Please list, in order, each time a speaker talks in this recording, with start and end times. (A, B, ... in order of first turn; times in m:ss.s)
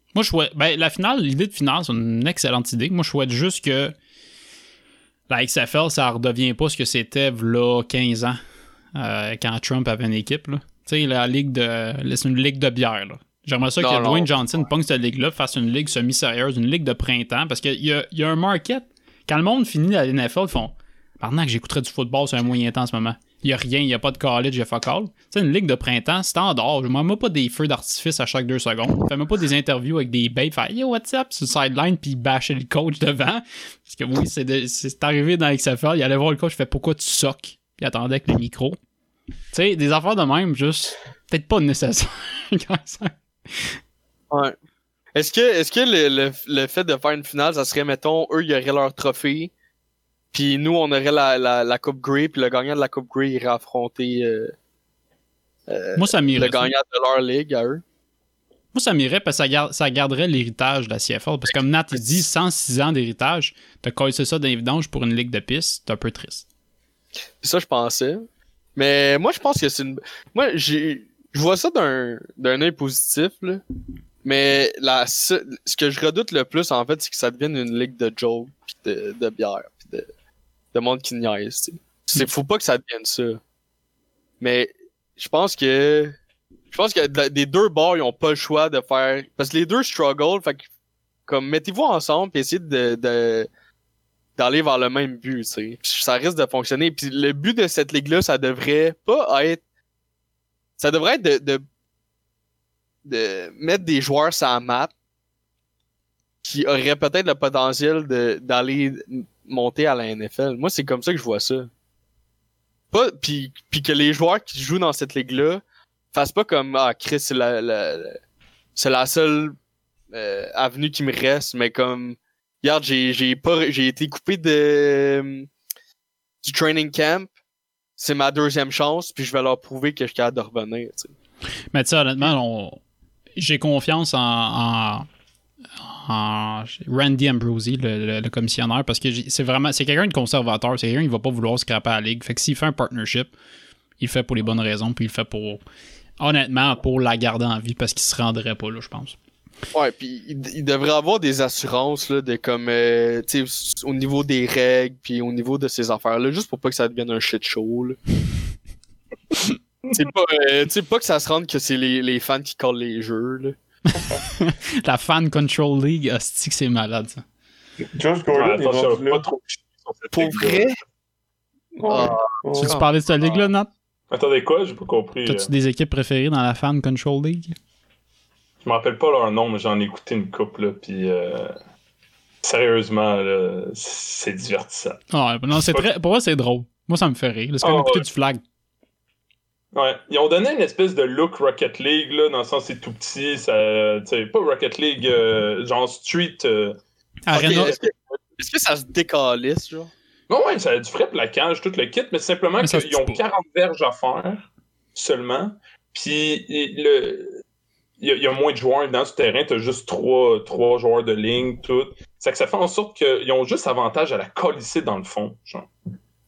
0:00.2-0:03.9 A
0:05.3-0:08.4 A
0:09.0-0:38.8 A
0:13.8-0:14.3 B
0:39.5-0:43.8 A
0:45.2-0:49.5 B
0:50.3-0:54.5 B
0:55.7-0:57.8 B
0:56.0-0:56.7 A
0:58.7-1:06.4 A
1:07.4-1:13.6 B
1:14.2-1:20.1 B
1:20.7-1:23.4 B
1:24.4-1:26.2 B
1:26.7-1:30.7 B
1:31.3-1:33.5 B
1:34.4-1:39.6 B
1:40.8-1:41.6 B
1:43.1-1:44.9 B
1:46.4-1:51.7 B
1:52.9-1:55.6 B
1:56.1-1:58.2 B
1:58.8-1:59.6 B
2:00.1-2:05.5 B
2:06.4-2:07.3 B
2:08.0-2:11.1 B
2:11.7-2:12.8 A
2:13.4-2:15.1 A
2:15.8-2:23.3 A
2:24.0-2:25.6 A
2:26.2-2:29.2 A
2:29.7-2:38.0 B
2:39.9-2:43.6 B
2:44.0-2:44.2 C
2:44.3-2:47.2 A
2:47.9-2:49.2 C
2:48.3-2:50.8 D
2:50.1-2:50.8 B
2:51.8-2:52.8 C
2:51.9-2:53.5 B
2:52.6-2:53.7 A
2:54.1-2:55.5 D
2:55.3-2:57.6 A
2:58.6-3:01.6 D
3:02.4-3:05.0 D
3:05.1-3:08.4 A
3:05.5-3:05.9 D
3:07.6-3:08.1 D
3:09.7-3:16.8 D
3:17.3-3:17.8 A
3:17.3-3:19.9 B
3:17.4-3:17.8 D
3:20.3-3:27.4 D
3:22.6-3:23.2 A
3:28.0-3:35.7 D